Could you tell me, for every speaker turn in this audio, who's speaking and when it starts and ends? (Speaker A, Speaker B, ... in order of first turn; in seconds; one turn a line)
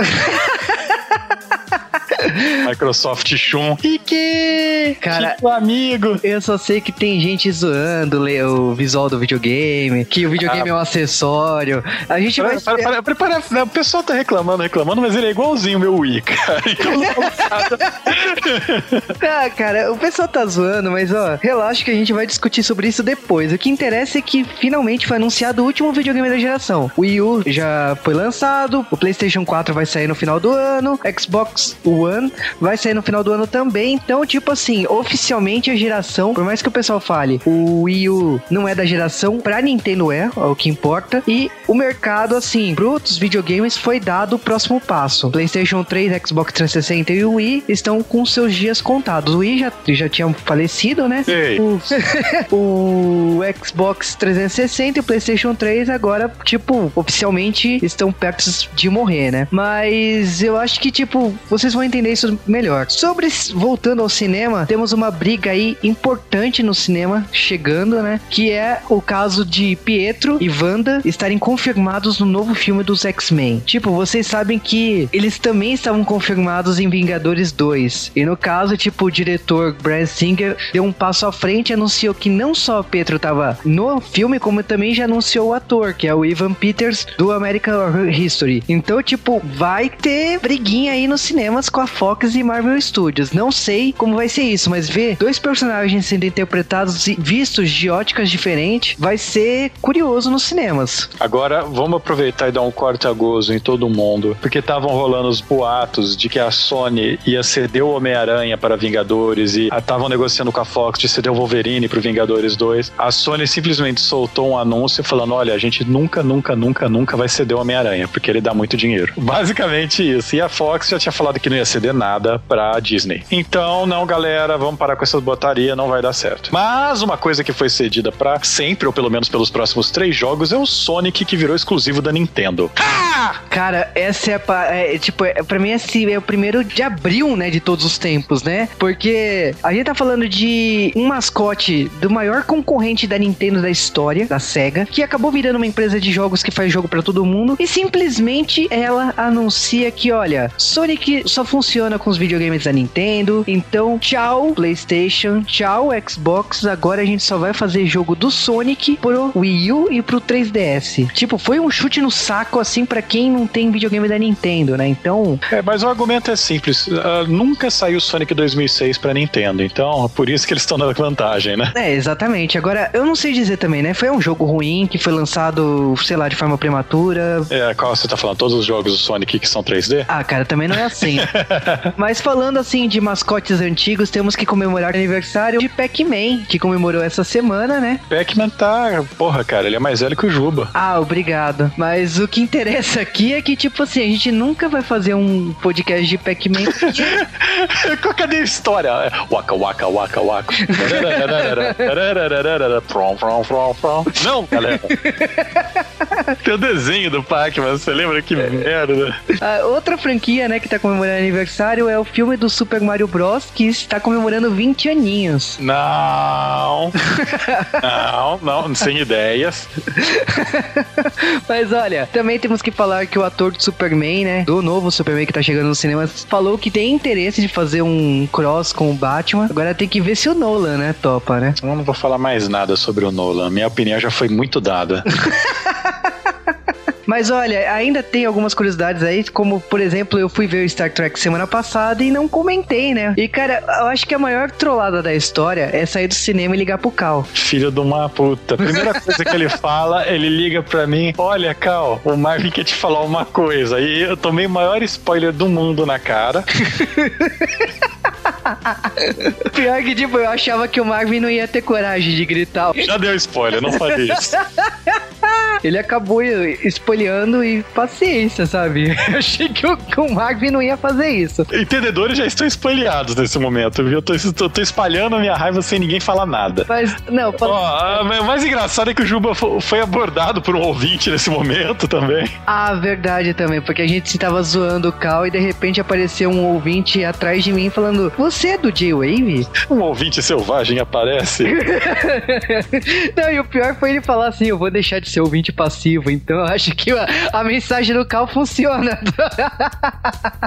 Speaker A: 0.1-0.8
Speaker A: 2.1-2.6
Speaker B: 2.5-6.2
Speaker A: 5.0-5.4
Speaker A: 6.2-12.9
Speaker B: 10.4-10.7
Speaker B: 12.4-19.1
Speaker A: 16.9-17.9
Speaker A: 19.2-101.1
Speaker B: 51.3-51.6
Speaker B: 101.2-133.4
Speaker A: 133.5-165.4
Speaker B: 165.5-171.7
Speaker A: 171.7-177.5
Speaker B: 177.5-180.1
Speaker A: 180.1-181.3
Speaker B: 181.0-181.9
Speaker A: 181.9-188.0
Speaker B: 188.1-190.7
Speaker A: 190.7-197.2
Speaker B: 196.7-204.9
Speaker A: 200.6-201.9
Speaker A: 204.5-206.3
Speaker B: 206.4-209.2
Speaker A: 209.4-215.6
Speaker B: 215.6-216.9
Speaker A: 217.1-217.8
Speaker B: 217.7-219.7
Speaker A: 219.9-231.6
Speaker B: 231.6-235.0
Speaker A: 235.2-236.1
Speaker A: 237.1-247.3
Speaker B: 247.3-256.5
Speaker A: 248.6-249.3
Speaker A: 256.6-257.7
Speaker A: 258.2-262.9
Speaker B: 262.8-264.4
Speaker A: 263.6-271.5
Speaker B: 271.5-276.7
Speaker A: 276.7-278.0
Speaker B: 277.4-282.3
Speaker A: 282.5-289.5
Speaker B: 289.6-291.5
Speaker A: 291.4-300.3